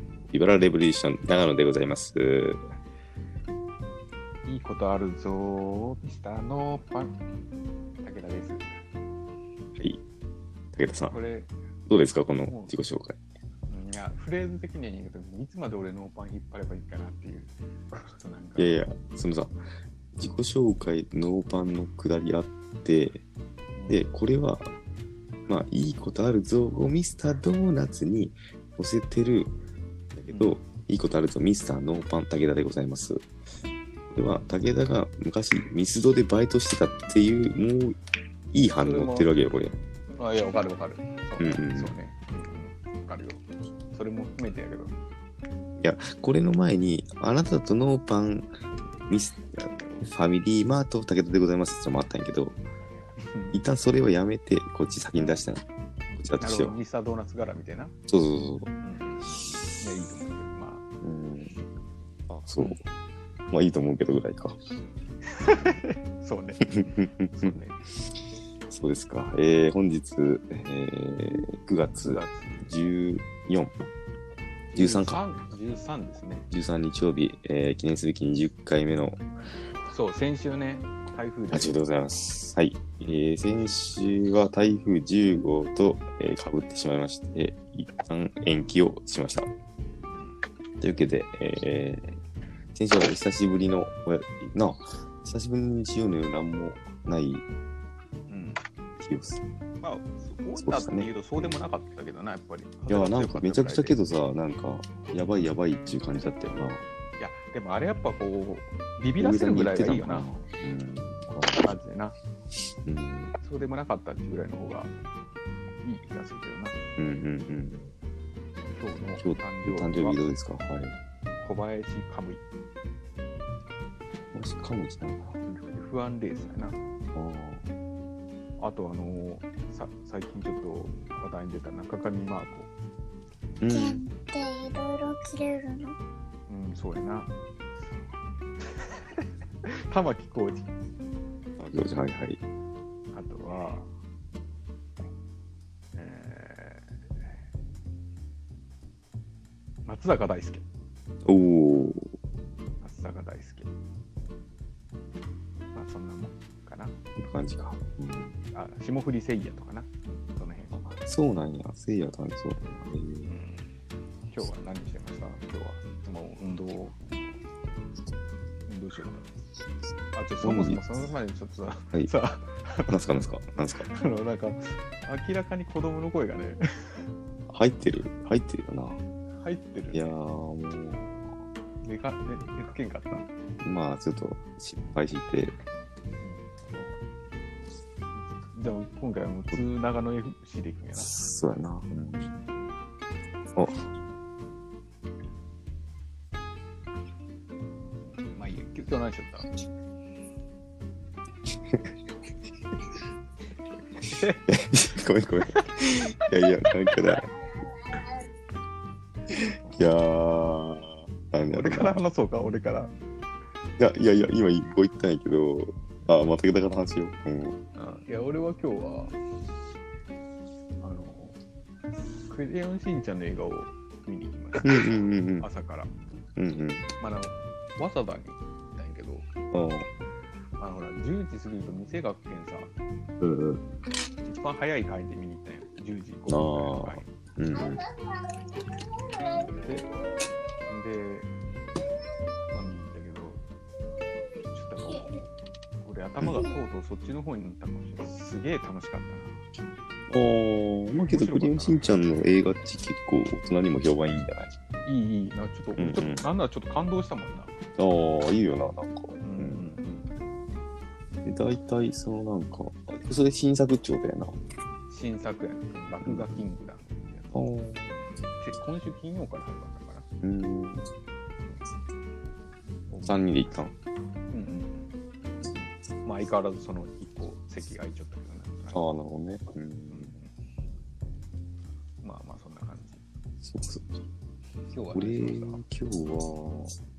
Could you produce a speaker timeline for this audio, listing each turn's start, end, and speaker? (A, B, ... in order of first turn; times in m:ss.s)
0:00.3-0:02.6 A
0:04.4-0:07.2 B
0:08.0-0:08.7 B
0:10.7-0:11.2 A
0:11.1-0:11.5 B
0:11.9-0:13.2 A
0:12.5-0:12.8 B
0:13.7-0:17.5 B
0:18.1-0:18.8 B
0:18.6-0:19.6 A
0:20.2-0:23.2 A
0:23.8-0:24.0 B
0:23.9-0:24.7 A
0:25.5-0:29.5 A
0:30.1-0:33.3 A
0:30.3-0:30.6 B
0:34.1-0:38.0 A
0:38.5-0:39.8 A
0:38.6-0:39.3 B
0:40.1-0:45.0 B
0:41.4-0:41.9 A
0:45.8-0:48.5 A
0:49.1-0:52.6 A
0:53.2-0:53.6 B
0:53.5-0:55.6 A
0:56.2-0:56.8 A
0:56.4-0:57.9 B
0:58.1-0:58.7 A
0:58.8-1:00.8 B
1:01.0-1:01.6 A
1:02.3-1:02.8 A
1:03.5-1:04.6 A
1:05.2-1:06.8 B
1:06.6-1:07.6 A
1:07.3-1:07.8 B
1:08.7-1:13.7 A
1:12.0-1:12.7 B
1:14.7-1:16.4 B
1:14.7-1:15.2 A
1:16.5-1:19.2 A
1:19.9-1:21.8 B
1:21.5-1:29.5 A
1:30.8-1:32.2 A
1:32.7-1:37.4 A
1:38.3-1:38.6 B
1:39.0-1:39.4 A
1:39.8-1:44.0 B
1:40.6-1:41.6 A
1:42.9-1:46.8 A
1:47.2-1:50.3 B
1:49.2-1:51.7 A
1:51.6-1:52.2 B
1:52.8-1:53.3 A
1:53.4-1:54.9 B
1:55.8-1:56.8 B
1:57.0-1:57.8 A
1:58.7-2:00.2 B
1:59.2-2:01.0 A
2:01.4-2:02.4 B
2:04.3-2:05.3 A
2:05.4-2:06.8 B
2:07.1-2:07.6 A
2:08.6-2:12.7 B
2:13.6-2:14.0 A
2:13.7-2:16.0 C
2:16.5-2:17.3 B
2:18.7-2:20.7 B
2:21.6-2:22.4 A
2:23.1-2:23.9 B
2:25.9-2:26.8 B
2:29.8-2:30.6 B
2:31.2-2:32.1 A
2:32.8-2:33.7 B
2:35.7-2:37.0 B
2:37.2-2:38.4 A
2:38.5-2:40.8 B
2:40.7-2:43.3 A
2:43.2-2:43.7 B
2:44.3-2:47.0 B
2:48.7-2:49.2 B
2:50.1-2:53.0 B
2:50.4-2:50.8 A
2:52.9-2:53.9 A
2:53.9-2:56.6 B
2:57.5-2:59.0 A
2:59.4-3:00.1 B
2:59.9-3:01.3 A
3:01.8-3:03.3 B
3:03.6-3:05.6 A
3:06.2-3:06.9 B
3:08.2-3:11.2 B
3:10.9-3:12.4 A
3:13.5-3:13.9 A
3:18.3-3:19.5 B
3:24.0-3:24.4 B
3:24.5-3:27.3 A
3:29.7-3:32.0 A
3:31.5-3:32.9 B
3:33.8-3:37.6 A
3:37.8-3:39.1 B
3:40.8-3:41.4 B
3:42.3-3:45.9 B
3:44.6-3:45.5 A
3:46.4-3:46.8 A
3:47.0-3:49.2 B
3:49.5-3:49.9 A
3:50.6-3:52.7 B
3:53.2-3:53.6 A
3:54.2-3:57.1 B
3:56.3-3:57.8 A
3:57.5-3:57.9 C
3:59.0-3:59.7 C
3:59.6-3:59.9 B
4:00.7-4:01.3 B
4:02.5-4:03.4 B
4:04.5-4:05.2 B
4:05.8-4:09.4 B
4:10.1-4:14.5 A
4:10.9-4:11.8 B
4:14.8-4:17.5 B
4:15.8-4:16.2 A
4:17.8-4:19.7 A
4:19.2-4:20.1 B
4:21.2-4:24.4 A
4:24.9-4:27.4 B
4:26.0-4:26.5 A
4:27.3-4:27.9 A
4:27.9-4:30.0 B
4:30.2-4:30.9 A
4:32.9-4:33.2 B
4:33.1-4:33.7 A
4:34.3-4:34.9 B
4:35.5-4:38.9 B
4:38.7-4:40.1 A
4:39.9-4:40.3 B
4:42.0-4:43.0 B
4:43.4-4:44.0 A
4:44.7-4:45.6 B
4:44.9-4:46.8 A